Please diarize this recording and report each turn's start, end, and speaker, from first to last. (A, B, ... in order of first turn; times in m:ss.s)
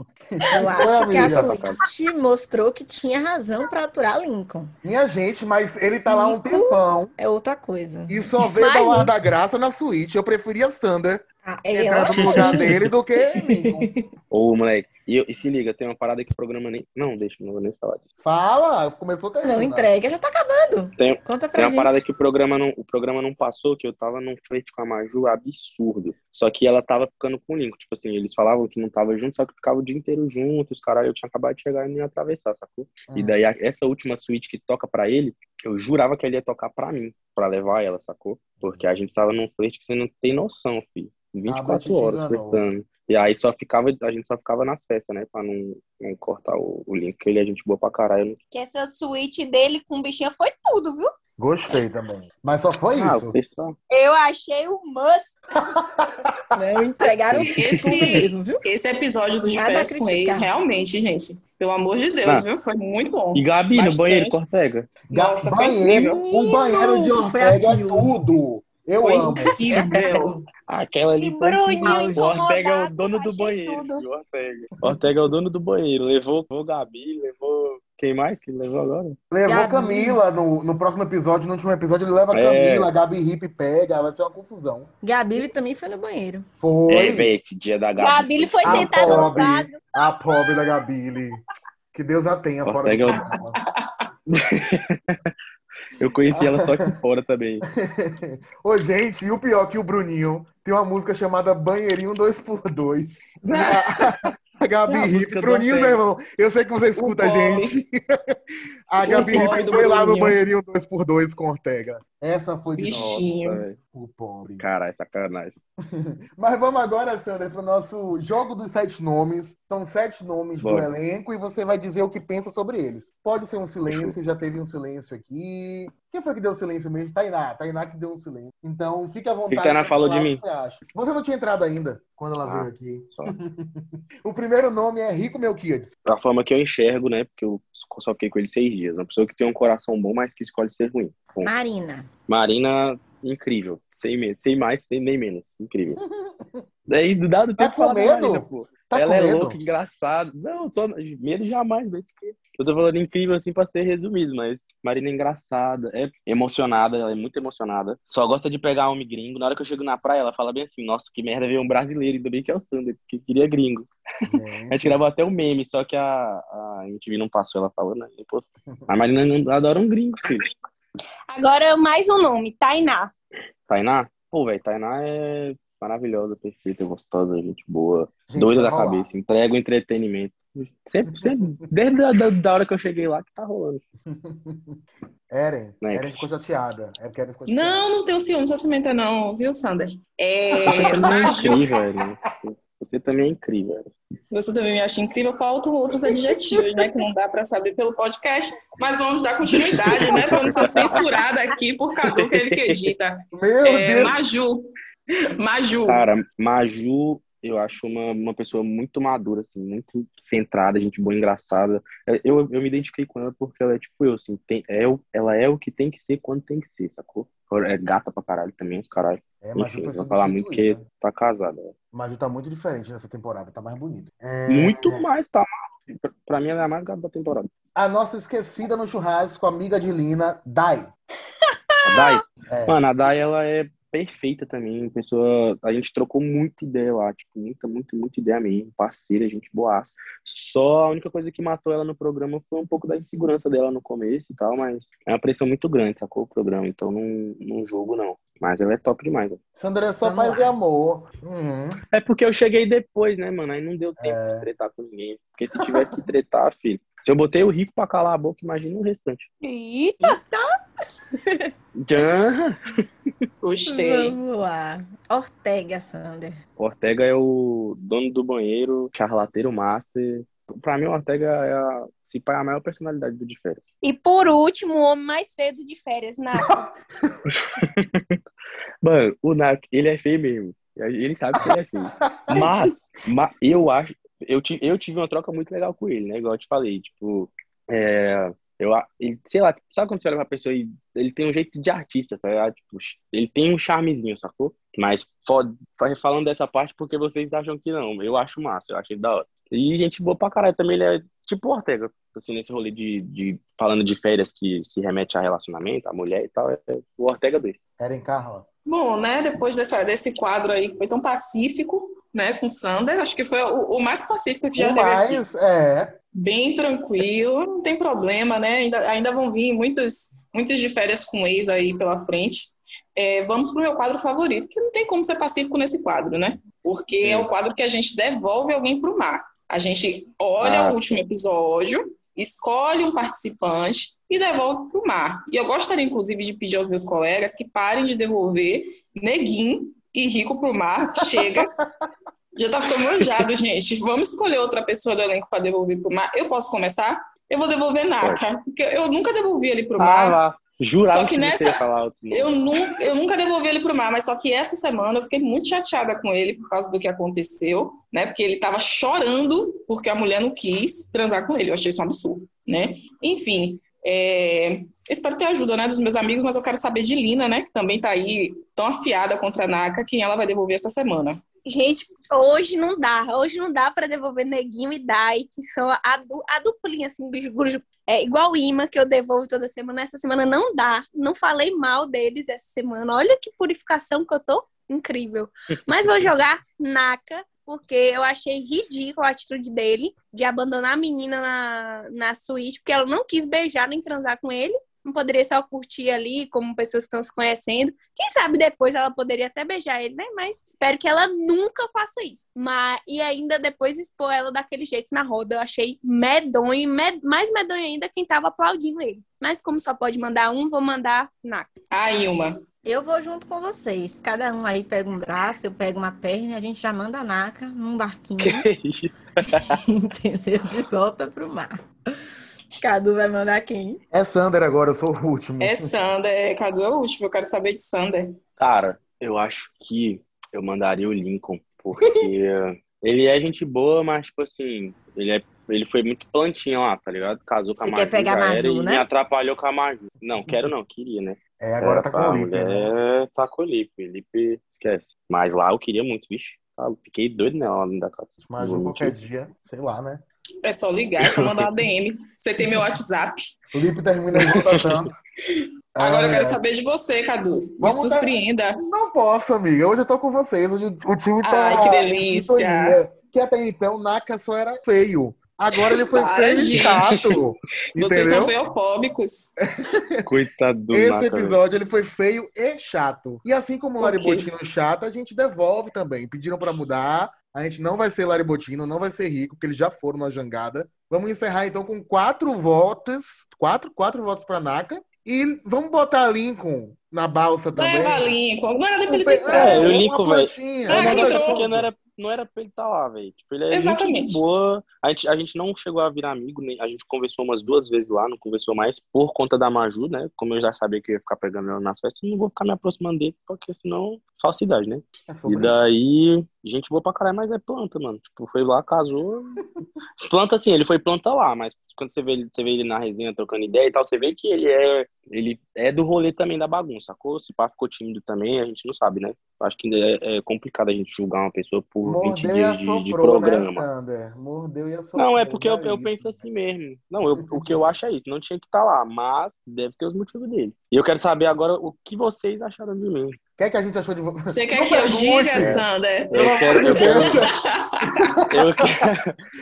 0:00.3-0:01.6 A
0:00.5-0:04.7 B
0:01.1-0:01.8 C
0:04.8-0:07.1 A
0:06.1-0:08.3 B
0:08.1-0:13.9 A
0:08.6-0:09.1 D
0:11.4-0:14.0 B
0:12.2-0:12.8 C
0:14.3-0:18.0 C
0:18.2-0:19.9 A
0:19.4-0:22.0 B
0:21.0-0:48.4 C
0:33.1-0:33.4 A
0:41.5-0:42.6 A
0:48.5-0:51.1 D
0:51.4-0:53.4 A
0:52.9-0:53.8 C
0:53.9-0:55.4 D
0:55.8-0:56.1 A
0:56.6-0:58.6 B
0:57.6-1:04.4 E
0:59.5-1:00.5 B
1:03.4-1:04.9 C
1:05.1-1:09.6 A
1:05.1-1:06.2 E
1:05.9-1:08.1 B
1:09.0-1:10.4 E
1:09.6-1:10.4 B
1:10.7-1:19.2 C
1:11.2-1:14.0 D
1:11.8-1:12.4 B
1:19.3-1:24.9 A
1:19.5-1:20.2 B
1:22.3-1:22.9 C
1:25.0-1:26.5 B
1:26.6-1:27.3 A
1:26.9-1:29.4 C
1:28.0-1:29.9 D
1:28.6-1:31.4 A
1:31.9-1:33.6 A
1:32.6-1:33.2 C
1:33.1-1:34.0 E
1:34.3-1:35.3 C
1:36.0-1:37.7 C
1:36.3-1:36.8 A
1:37.8-1:48.4 A
1:43.5-1:44.3 C
1:44.9-1:46.0 C
1:47.0-1:47.7 E
1:48.9-1:53.2 A
1:49.0-1:50.4 E
1:49.1-1:49.8 C
1:52.8-1:53.6 E
1:52.9-1:53.8 C
1:53.9-1:54.6 A
1:54.6-1:55.6 C
1:55.9-2:15.9 A
2:00.6-2:00.9 C
2:03.9-2:04.2 C
2:09.5-2:10.4 C
2:12.4-2:13.4 C
2:16.1-2:21.5 C
2:21.4-2:22.1 B
2:22.3-2:26.0 C
2:26.0-2:26.6 A
2:26.9-2:43.9 C
2:27.6-2:29.6 A
2:44.3-2:45.0 A
2:44.7-2:50.5 C
2:51.3-2:53.1 D
2:53.7-3:03.8 C
2:58.3-2:59.1 A
3:04.1-3:04.8 A
3:05.3-3:07.9 A
3:05.8-3:06.3 C
3:07.5-3:11.6 E
3:10.6-3:11.6 A
3:10.7-3:13.9 C
3:14.3-3:24.6 E
3:19.4-3:20.5 A
3:19.8-3:21.0 C
3:22.0-3:22.9 C
3:23.3-3:24.2 A
3:25.4-3:26.0 E
3:25.8-3:41.7 C
3:39.4-3:40.8 A
3:41.9-3:45.0 A
3:44.5-3:47.5 C
3:47.8-3:50.9 A
3:51.9-4:09.4 C
3:52.5-3:52.8 A
4:09.6-4:11.8 A
4:10.0-4:10.4 B
4:11.9-4:19.3 C
4:14.0-4:14.5 A
4:15.6-4:16.0 A
4:19.4-4:20.2 D
4:20.0-4:20.6 B
4:21.2-4:21.5 B
4:21.8-4:23.3 C
4:23.4-4:24.2 E
4:23.7-4:26.4 B
4:26.6-4:33.6 C
4:33.8-4:36.6 D
4:36.4-4:37.2 A
4:37.3-4:38.2 C
4:38.8-5:07.6 C
4:42.0-4:42.5 A
5:07.8-5:08.4 A
5:08.7-5:15.2 E
5:14.6-5:16.0 A
5:16.2-5:41.5 E
5:27.0-5:27.3 C
5:30.4-5:31.0 C
5:41.0-5:41.9 A
5:42.4-5:50.2 E
5:49.8-5:52.4 C
5:50.9-6:11.2 E
6:11.5-6:51.5 D
6:51.7-6:52.4 E
6:52.6-6:58.5 B
6:58.2-6:59.6 C
6:59.3-7:01.6 B
7:02.6-7:03.8 B
7:03.9-7:05.7 A
7:05.4-7:08.1 E
7:08.4-7:28.9 C
7:17.6-7:18.9 B
7:21.4-7:22.7 A
7:28.2-7:30.0 A
7:30.4-7:33.3 E
7:31.0-7:31.5 C
7:33.5-7:35.0 A
7:34.3-7:34.8 C
7:35.4-7:38.6 E
7:35.8-7:36.4 A
7:37.6-7:48.3 A
7:41.2-7:42.8 E
7:45.9-7:47.1 E
7:46.6-7:47.0 C
7:47.8-7:49.4 E
7:49.7-7:50.1 A
7:50.1-7:51.4 C
7:50.7-8:08.1 A
7:53.8-7:54.3 C
8:07.5-8:09.8 E
8:08.9-8:11.7 A
8:09.3-8:29.4 C
8:10.7-8:11.4 E
8:13.5-8:14.2 E
8:25.1-8:25.7 A
8:30.0-8:43.7 C
8:41.8-8:46.2 A
8:45.0-8:53.2 C
8:47.1-8:47.5 A
8:53.4-8:57.3 A
8:54.3-8:58.2 E
8:55.4-8:57.2 C
8:58.0-8:58.7 A
8:58.3-8:59.2 C